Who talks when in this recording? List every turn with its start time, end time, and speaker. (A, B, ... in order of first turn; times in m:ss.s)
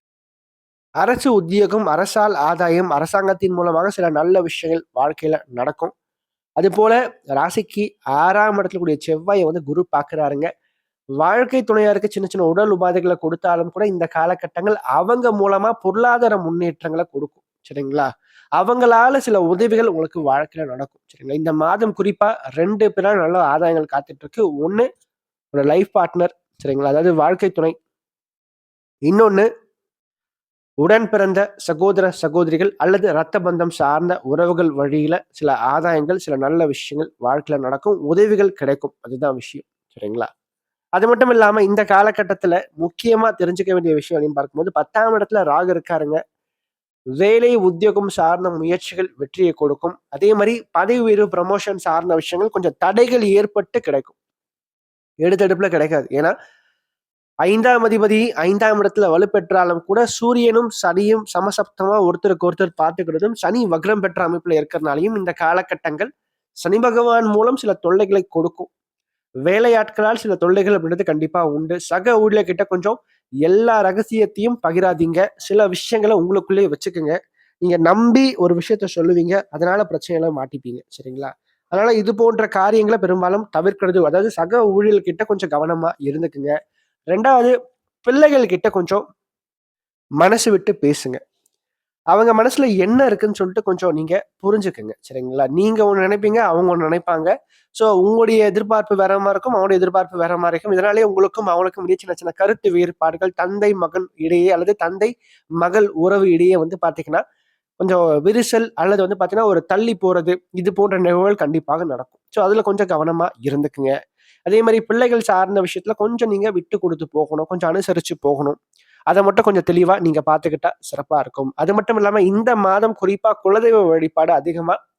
0:01.0-0:05.9 A
0:06.6-0:10.5 A
0:11.2-0:24.9 A
0:25.5-0:27.7 A
0:29.0-0:29.4 A
0:30.8-0:40.2 A
0:41.0-0:46.2 A
0:47.2-0:54.1 A
0:55.2-0:56.3 A
0:57.4-1:06.1 A
1:06.6-1:08.7 A
1:09.4-1:26.5 A
1:27.1-1:27.5 A
1:28.0-1:29.0 A
1:30.2-1:31.2 A
1:32.1-1:47.2 A
1:47.8-1:53.9 A
1:54.5-1:58.6 A
1:59.1-2:04.8 A